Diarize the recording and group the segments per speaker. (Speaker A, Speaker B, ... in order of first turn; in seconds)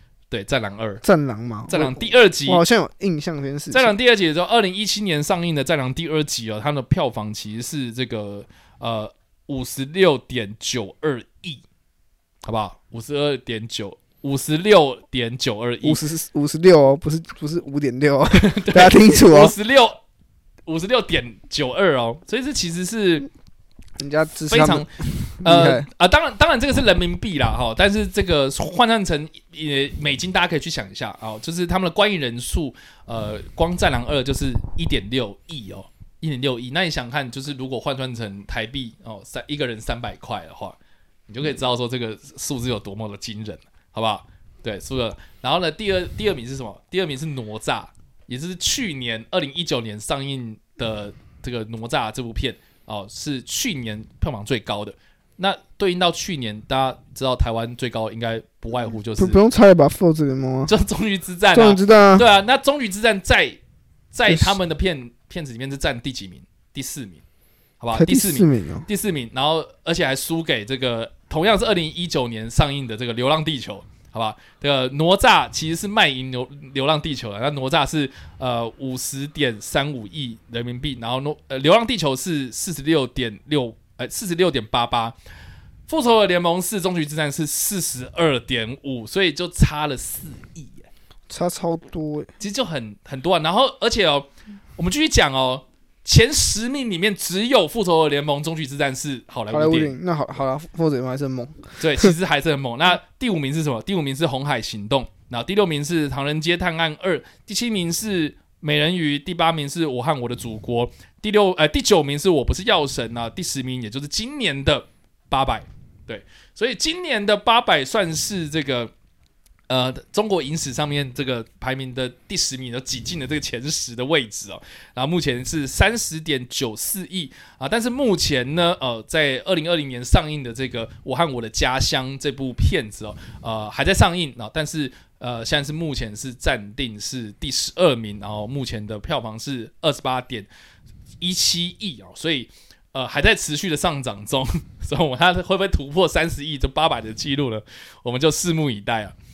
Speaker A: 0.3-1.0, 1.7-2.6, 3.7-11.6, 12.4-16.0, 18.3-20.0, 20.7-23.3, 24.5-24.9, 25.4-40.8, 41.3-59.4, 60.7-63.6, 64.1-67.2, 67.8-85.2, 85.9-90.9, 92.4-99.9, 101.8-118.9, 119.7-140.5, 141.2-149.2
Speaker B: 1.0-3.9, 15.8-19.5, 24.0-25.9, 59.2-60.7, 61.5-62.3, 64.3-64.5, 68.0-68.9, 91.3-92.3, 99.5-102.1